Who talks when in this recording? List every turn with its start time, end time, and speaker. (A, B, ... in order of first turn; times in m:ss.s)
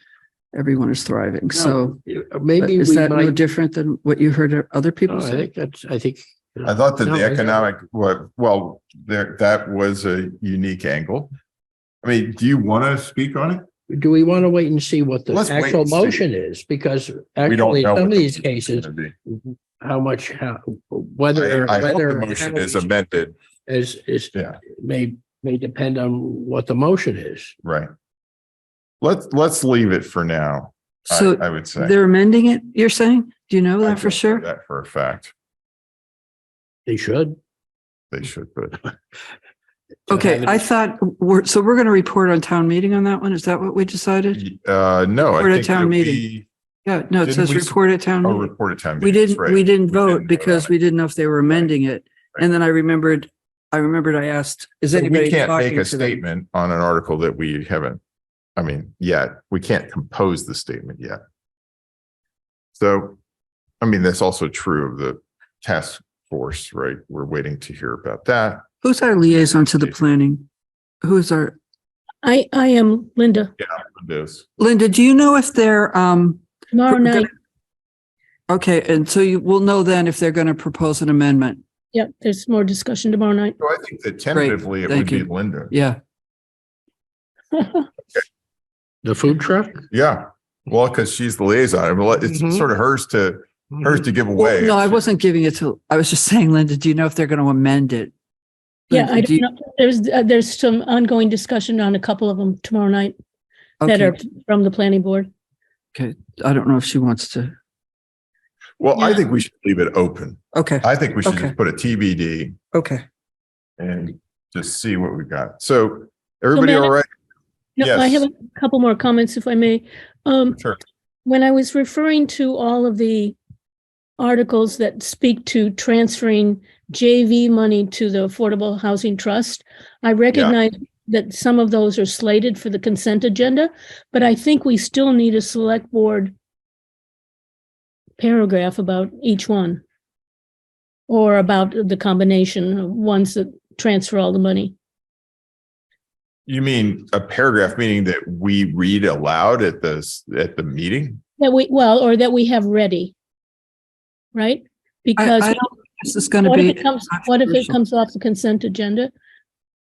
0:00.5-0:02.0 A
0:01.5-0:03.4 B
0:02.6-0:05.5 A
0:05.1-0:07.6 B
0:06.6-0:11.3 C
0:12.0-0:13.6 C
0:13.9-0:22.9 B
0:15.3-0:16.2 C
0:17.5-0:19.1 C
0:21.4-0:23.4 C
0:23.7-0:27.5 B
0:27.6-0:27.9 C
0:29.0-0:32.0 C
0:31.1-0:34.4 A
0:33.8-0:35.3 C
0:36.9-0:37.4 B
0:38.1-0:38.8 C
0:40.1-0:40.6 B
0:40.1-0:44.4 A
0:44.4-0:46.5 C
0:45.4-0:46.2 A
0:46.9-0:48.5 A
0:47.2-0:50.7 C
0:49.0-0:56.2 A
0:54.9-0:58.0 C
0:58.6-1:01.2 C
1:02.8-1:03.2 C
1:03.8-1:08.7 C
1:08.8-1:10.5 A
1:09.3-1:10.0 C
1:11.0-1:11.6 A
1:12.2-1:13.5 D
1:13.6-1:14.5 C
1:14.6-1:17.3 A
1:16.7-1:17.3 D
1:18.5-1:21.6 A
1:21.9-1:23.6 D
1:23.6-1:25.7 C
1:24.3-1:26.0 A
1:27.6-1:27.8 D
1:29.0-1:29.8 B
1:29.9-1:35.0 C
1:34.4-1:38.1 A
1:38.9-1:39.4 A
1:38.9-1:43.2 D
1:43.8-1:44.2 A
1:43.8-1:45.3 D
1:46.0-1:47.6 A
1:48.8-1:52.6 C
1:50.5-1:51.5 A
1:52.7-1:53.0 A
1:53.8-1:57.1 C
1:56.5-1:56.9 D
1:57.8-2:00.6 D
1:57.8-1:58.3 C
2:01.3-2:03.4 D
2:04.2-2:16.3 D
2:10.3-2:10.6 C
2:18.2-2:19.8 D
2:21.1-2:24.8 D
2:26.5-2:31.2 C
2:31.4-2:33.1 D
2:34.4-2:35.6 D
2:35.2-2:37.7 A
2:36.4-2:39.1 D